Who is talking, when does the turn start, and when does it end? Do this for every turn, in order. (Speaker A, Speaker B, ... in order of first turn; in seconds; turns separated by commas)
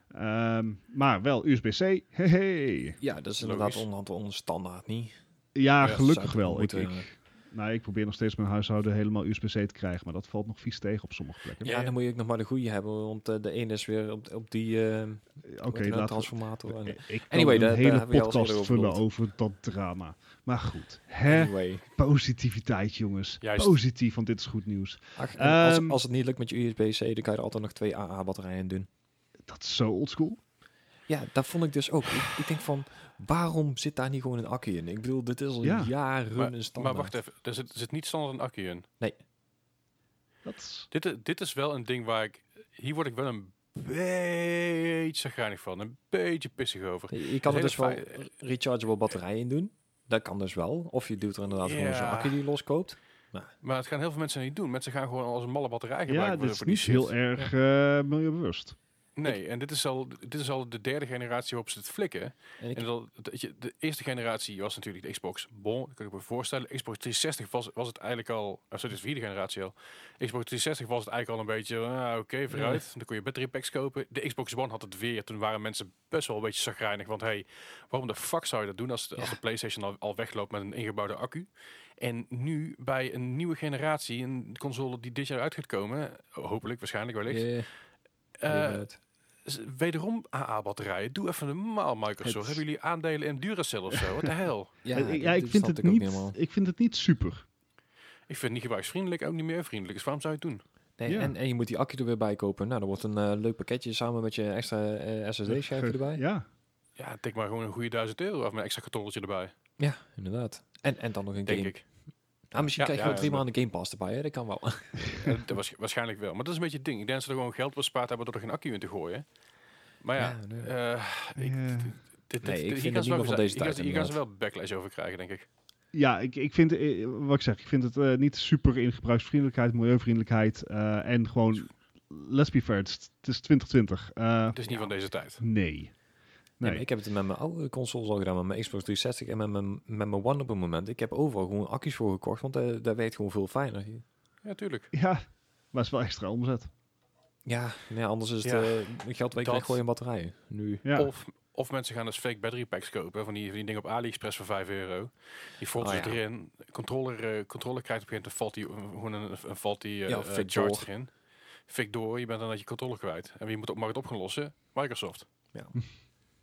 Speaker A: 0.1-3.0, Speaker B: 3.0-5.2, Speaker C: 3.4-3.9, Speaker A: 5.5-11.7, Speaker B: 5.8-7.1, Speaker C: 11.6-11.9, Speaker B: 11.6-19.0, Speaker A: 15.5-26.0, Speaker B: 21.2-21.8, Speaker C: 23.4-23.7, Speaker B: 25.1-28.9, Speaker A: 29.5-30.4, Speaker B: 31.1-37.1, Speaker A: 35.6-35.9, Speaker C: 36.3-38.9, Speaker A: 40.4-40.9, Speaker C: 40.9-48.2, Speaker B: 47.1-53.5, Speaker C: 51.6-52.4, Speaker C: 53.6-57.1, Speaker A: 56.1-58.8, Speaker C: 59.1-87.5, Speaker B: 62.6-62.8, Speaker B: 72.5-72.8, Speaker B: 87.3-87.7, Speaker C: 88.4-88.8, Speaker B: 88.4-89.0, Speaker C: 89.4-94.7, Speaker A: 92.2-92.6, Speaker B: 94.8-96.3, Speaker A: 94.9-97.4, Speaker C: 98.3-100.6, Speaker B: 101.0-106.2, Speaker A: 101.1-101.3, Speaker A: 105.5-106.4, Speaker C: 107.0-109.5, Speaker B: 109.8-111.7, Speaker C: 111.5-111.8, Speaker B: 112.5-115.4, Speaker C: 112.8-113.4, Speaker C: 115.2-119.2, Speaker C: 120.0-125.5, Speaker B: 120.2-120.7, Speaker A: 121.3-121.9, Speaker B: 122.4-124.2, Speaker A: 125.9-134.6, Speaker C: 134.5-135.4, Speaker A: 135.4-135.9, Speaker A: 136.6-136.8, Speaker B: 136.6-144.0, Speaker C: 144.4-144.9, Speaker A: 144.9-145.2, Speaker A: 145.7-146.7, Speaker B: 147.4-150.8, Speaker C: 148.4-149.8, Speaker A: 150.8-151.1, Speaker C: 150.9-161.1, Speaker B: 155.8-156.2, Speaker B: 160.1-160.9, Speaker C: 161.7-165.2